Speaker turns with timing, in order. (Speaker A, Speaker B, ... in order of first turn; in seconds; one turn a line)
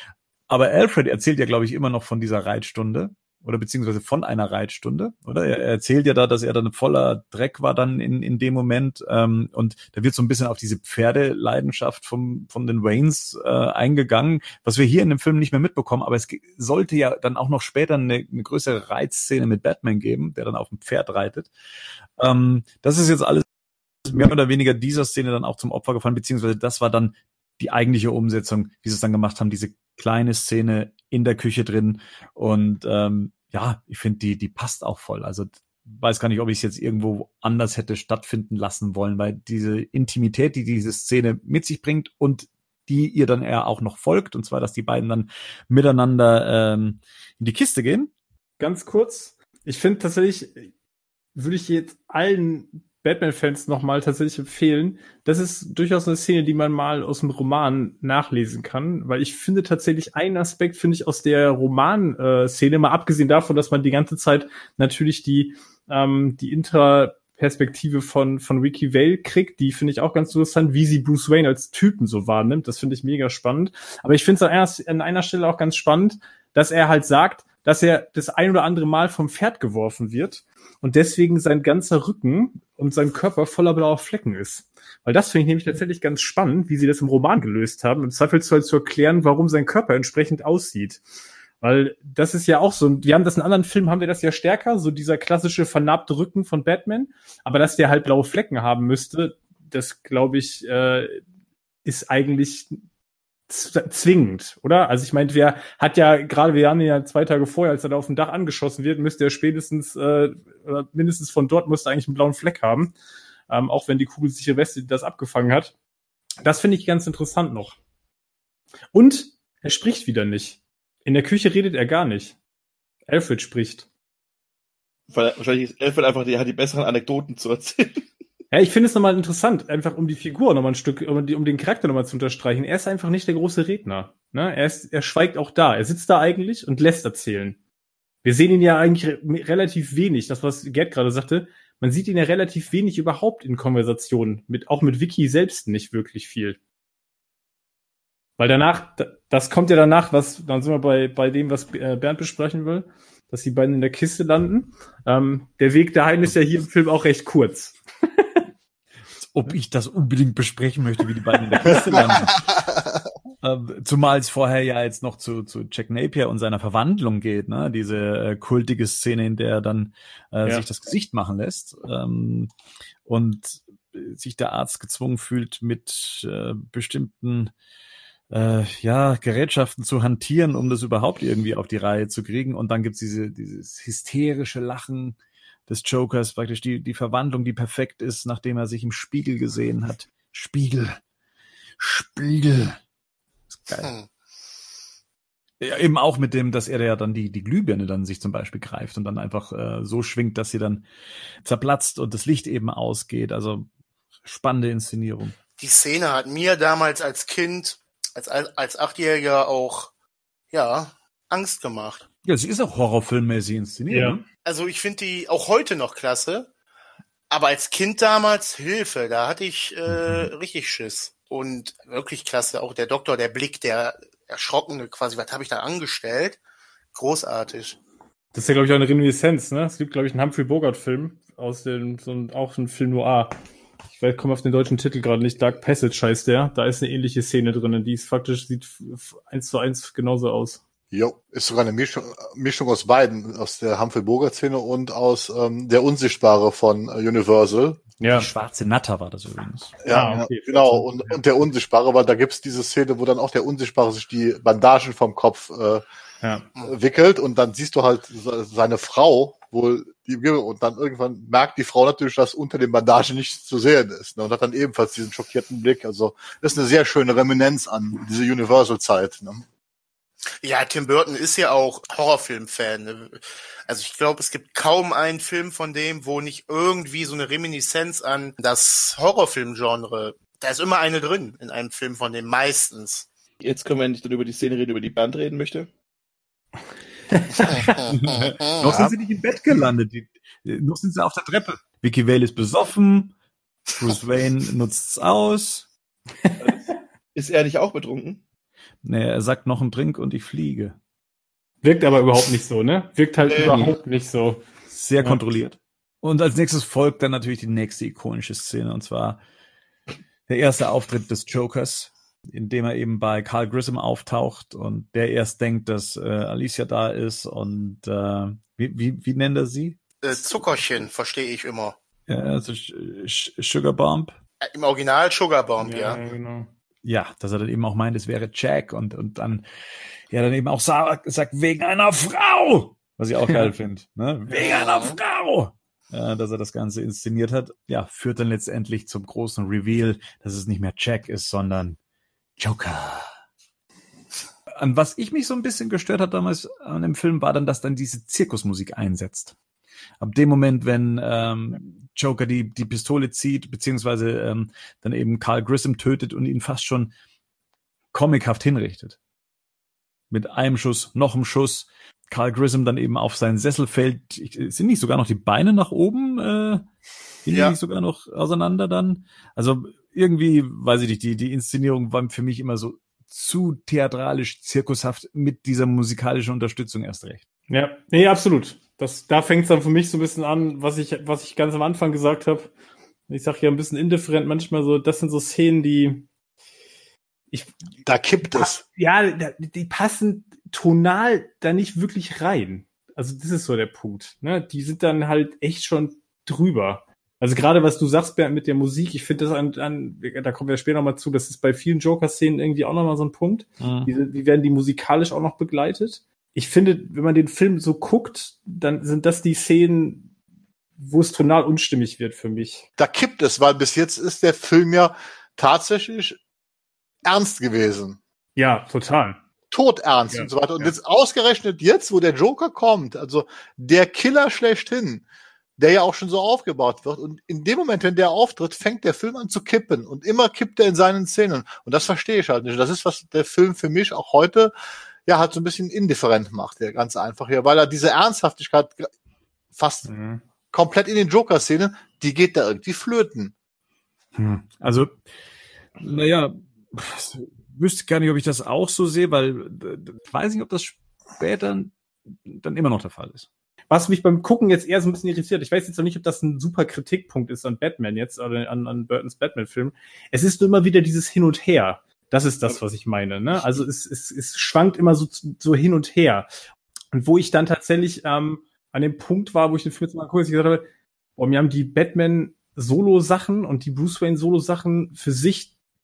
Speaker A: 0.5-21.5
Speaker A: 22.2-23.4
Speaker A: 24.0-48.1
Speaker B: 48.6-50.7
Speaker B: 51.4-91.0
Speaker B: 91.6-101.2
Speaker B: 101.8-102.8
Speaker B: 103.5-112.9
Speaker B: 113.5-115.7
Speaker B: 116.4-117.8
Speaker B: 118.9-122.4
Speaker B: 123.1-123.9
Speaker C: 125.1-128.1
Speaker B: 128.5-137.6
Speaker B: 138.2-146.6
Speaker B: 148.4-158.4
Speaker A: 159.2-162.4
Speaker B: 161.6-162.3
Speaker D: 161.7-163.0
Speaker A: 163.4-172.5
Speaker A: 173.1-177.5
Speaker A: 178.3-191.0
Speaker A: 191.8-192.8
Speaker A: 193.5-193.9
Speaker E: 193.8-194.1
Speaker A: 195.6-200.8
Speaker A: 201.4-203.7
Speaker A: 204.2-205.3
Speaker E: 205.6-209.9
Speaker E: 210.5-212.1
Speaker A: 212.2-214.2
Speaker B: 213.9-214.2
Speaker E: 214.4-216.5
Speaker E: 217.3-226.4
Speaker A: 219.9-220.3
Speaker E: 226.9-227.8
Speaker B: 228.3-233.3
Speaker B: 233.9-240.6
Speaker D: 240.9-247.8
Speaker B: 248.0-248.3
Speaker A: 248.1-249.8
Speaker D: 249.8-255.8
Speaker B: 249.9-251.2
Speaker D: 256.6-269.4
Speaker E: 270.4-283.1
Speaker C: 283.4-285.7
Speaker B: 287.1-287.7
Speaker E: 287.5-288.9
Speaker A: 287.9-293.1
Speaker A: 293.7-295.7
Speaker B: 296.2-296.7
Speaker C: 297.1-298.2
Speaker A: 298.8-300.8
Speaker B: 301.6-304.5
Speaker C: 303.3-303.6
Speaker A: 303.4-303.8
Speaker A: 304.7-309.2
Speaker B: 305.0-305.2
Speaker A: 310.3-320.5
Speaker E: 320.0-321.8
Speaker A: 322.1-324.2
Speaker E: 324.4-326.0
Speaker B: 325.6-326.5
Speaker A: 326.8-329.4
Speaker A: 330.1-341.8
Speaker B: 333.3-333.5
Speaker E: 334.3-334.9
Speaker A: 342.4-343.1
Speaker A: 344.6-349.3
Speaker A: 350.0-356.9
Speaker A: 357.9-359.0
Speaker A: 360.1-366.7
Speaker A: 367.3-377.2
Speaker E: 367.3-367.6
Speaker B: 377.5-382.5
Speaker B: 383.1-386.1
Speaker D: 387.9-388.6
Speaker B: 388.3-410.1
Speaker A: 403.6-403.9
Speaker B: 410.8-412.7
Speaker D: 412.8-416.2
Speaker D: 417.1-418.0
Speaker B: 418.4-419.2
Speaker D: 419.5-425.0
Speaker B: 420.1-420.7
Speaker D: 425.6-434.5
Speaker D: 435.1-438.9
Speaker D: 439.6-439.9
Speaker B: 439.9-440.2
Speaker D: 440.5-443.3
Speaker A: 444.1-445.0
Speaker A: 445.8-453.3
Speaker B: 453.7-466.3
Speaker B: 466.9-470.6
Speaker B: 471.2-475.5